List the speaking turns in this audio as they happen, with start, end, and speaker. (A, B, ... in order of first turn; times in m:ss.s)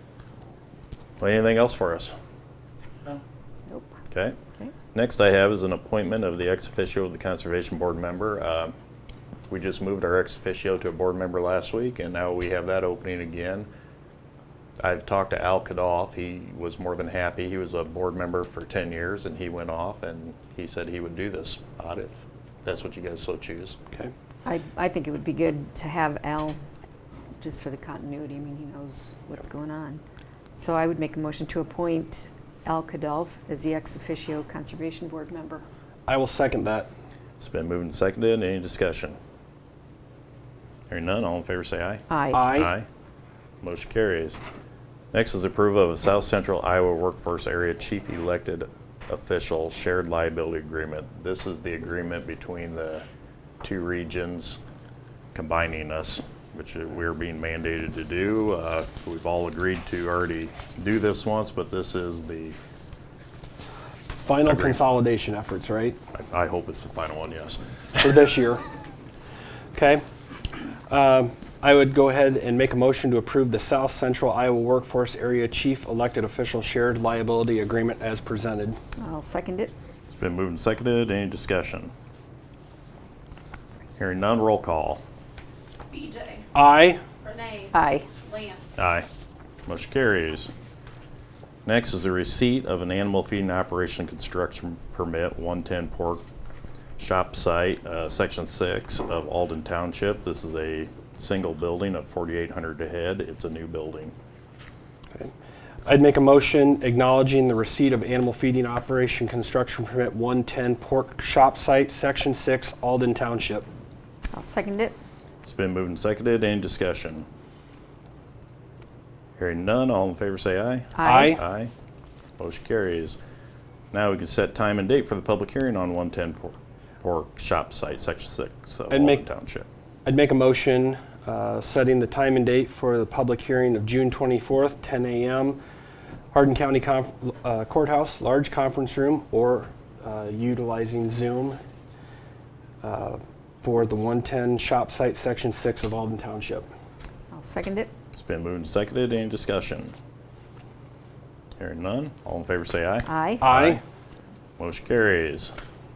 0:01.2-0:02.2 A
0:03.7-0:04.0 B
0:04.1-0:04.4 A
0:04.9-0:08.7 A
0:09.5-0:13.7 A
0:14.8-0:23.8 A
0:24.4-0:26.6 B
0:27.4-0:30.0 B
0:30.6-0:35.6 B
0:36.1-0:36.9 C
0:37.4-0:39.2 A
0:40.9-0:42.9 A
0:42.1-0:42.5 B
0:42.3-0:42.7 C
0:43.6-0:44.4 A
0:45.1-0:53.1 A
0:53.6-0:54.6 A
0:55.3-1:02.6 A
1:04.1-1:06.0 C
1:04.5-1:04.8 A
1:06.1-1:07.6 A
1:08.0-1:08.6 C
1:09.7-1:10.0 C
1:10.9-1:18.8 C
1:19.0-1:19.7 B
1:20.1-1:21.9 A
1:24.0-1:25.0 A
1:25.9-1:26.4 D
1:26.5-1:27.0 C
1:27.2-1:28.6 D
1:27.7-1:28.1 B
1:28.8-1:29.1 A
1:29.7-1:30.5 A
1:31.6-1:36.2 A
1:37.0-1:44.1 A
1:45.8-1:53.7 C
1:54.3-1:55.0 B
1:55.4-1:57.3 A
1:59.4-2:01.7 A
2:01.0-2:01.4 B
2:01.0-2:01.4 C
2:02.4-2:03.2 A
2:03.9-2:09.7 A
2:08.9-2:09.2 C
2:10.0-2:15.6 C
2:16.3-2:21.6 C
2:22.8-2:26.7 C
2:27.3-2:27.9 B
2:28.1-2:29.9 A
2:31.6-2:33.8 A
2:33.1-2:33.4 B
2:33.4-2:33.8 C
2:34.6-2:35.5 A